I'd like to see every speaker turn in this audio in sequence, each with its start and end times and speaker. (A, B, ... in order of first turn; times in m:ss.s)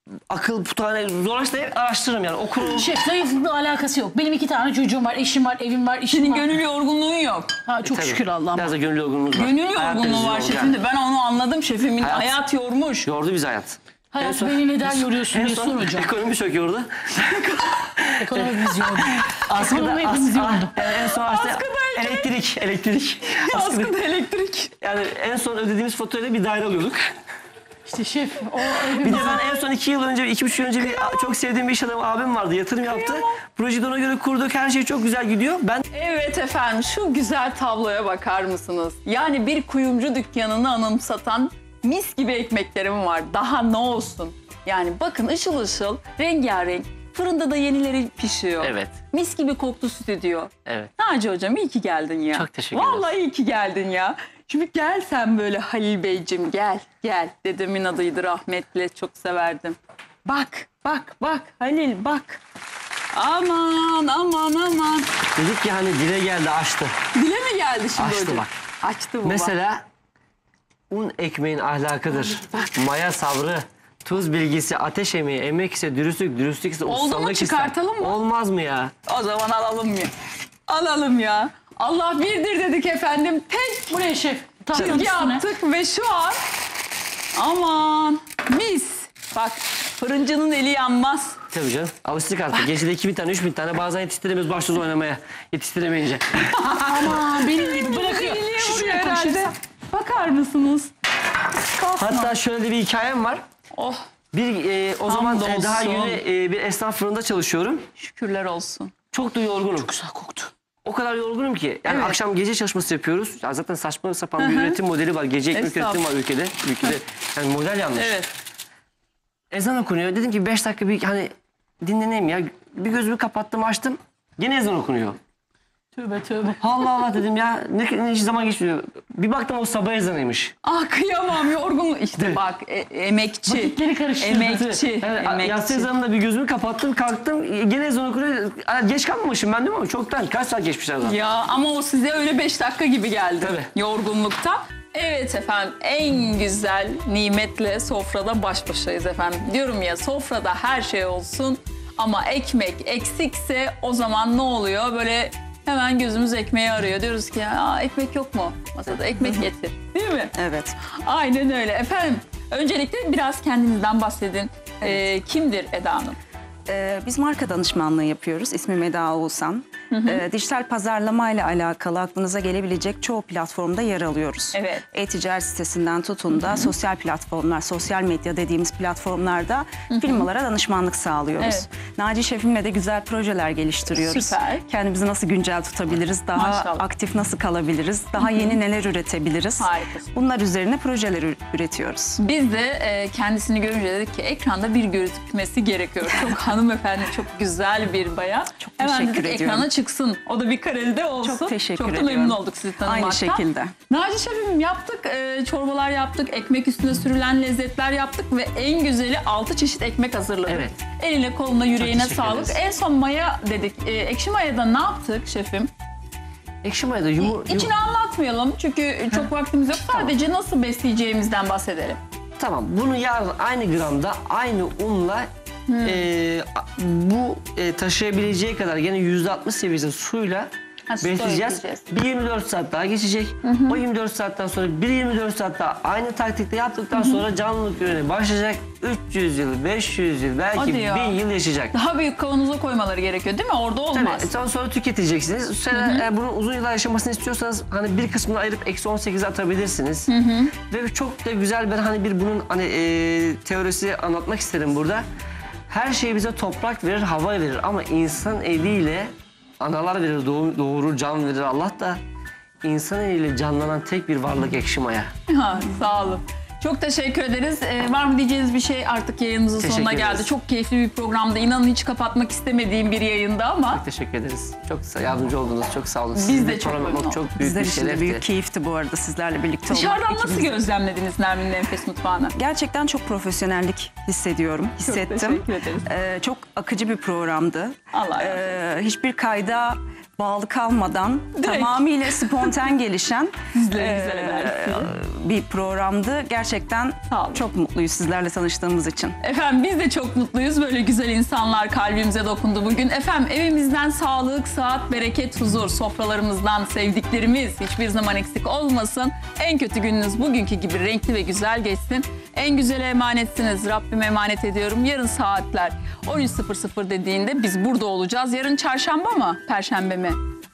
0:00.3-0:02.9 A
0:02.6-0:06.6 B
0:06.1-0:07.5 C
0:07.7-0:08.7 B
0:07.8-0:10.8 A
0:09.3-0:13.1 C
0:12.0-0:12.4 A
0:13.0-0:17.4 A
0:14.1-0:16.1 B
0:17.2-0:18.1 C
0:18.0-0:23.9 A
0:18.2-0:20.7 B
0:20.8-0:22.3 C
0:23.2-0:24.7 C
0:24.8-0:27.0 A
0:27.9-0:29.6 B
0:29.0-0:35.8 A
0:30.8-0:31.3 C
0:32.8-0:33.4 C
0:35.9-1:02.4 C
0:48.6-0:49.0 A
0:52.3-0:53.1 A
1:03.1-1:05.1 C
1:05.4-1:07.0 A
1:07.1-1:09.6 C
1:08.0-1:08.5 A
1:09.2-1:09.8 A
1:10.9-1:18.9 A
1:16.9-1:18.2 C
1:19.1-1:20.1 C
1:20.7-1:24.0 C
1:23.9-1:25.5 B
1:24.7-1:26.4 C
1:24.8-1:25.0 A
1:27.4-1:31.4 C
1:31.5-1:36.7 A
1:36.6-1:40.9 C
1:36.8-1:39.5 B
1:41.5-1:42.3 C
1:42.0-1:43.4 A
1:43.7-1:44.0 C
1:44.3-1:47.9 A
1:45.1-1:46.2 C
1:48.0-1:48.9 C
1:49.1-1:50.2 A
1:50.8-1:58.2 A
1:51.9-1:52.2 C
1:54.4-1:54.8 C
1:55.5-1:56.0 C
1:58.0-1:58.3 C
1:59.5-2:05.2 A
2:06.0-2:06.6 B
2:06.6-2:10.5 A
2:10.6-2:15.9 C
2:13.5-2:14.7 B
2:14.4-2:21.2 A
2:21.0-2:40.3 C
2:23.4-2:23.7 A
2:40.4-2:40.8 D
2:40.9-2:46.2 C
2:46.7-3:12.2 D
2:49.9-2:50.2 C
2:54.5-2:54.8 C
2:56.4-2:56.7 C
2:59.9-3:00.3 C
3:01.4-3:01.7 C
3:03.9-3:04.7 C
3:06.3-3:06.8 C
3:08.2-3:08.6 C
3:09.6-3:10.1 C
3:12.2-3:35.7 C
3:18.7-3:19.7 D
3:21.2-3:23.7 D
3:30.5-3:30.8 A
3:31.8-3:32.6 A
3:36.6-3:37.7 A
3:37.2-3:42.0 C
3:42.4-3:45.3 A
3:45.7-3:46.0 C
3:45.8-3:50.5 A
3:50.9-3:51.9 C
3:51.0-4:01.8 A
3:53.4-3:53.8 C
3:57.0-3:57.2 C
4:00.5-4:01.2 C
4:01.7-4:04.3 C
4:03.9-4:10.1 A
4:05.7-4:06.1 C
4:10.1-4:10.5 C
4:10.7-4:15.0 A
4:15.7-4:22.0 A
4:22.6-4:25.1 A
4:25.3-4:33.8 C
4:29.6-4:30.3 A
4:33.7-4:38.2 A
4:36.2-4:37.3 C
4:37.4-4:40.6 D
4:39.7-4:42.4 C
4:42.4-4:59.2 D
4:44.8-4:45.9 C
4:47.9-4:48.6 C
4:51.4-4:52.5 C
4:53.5-4:54.9 C
4:57.1-4:57.4 C
4:59.2-5:20.2 C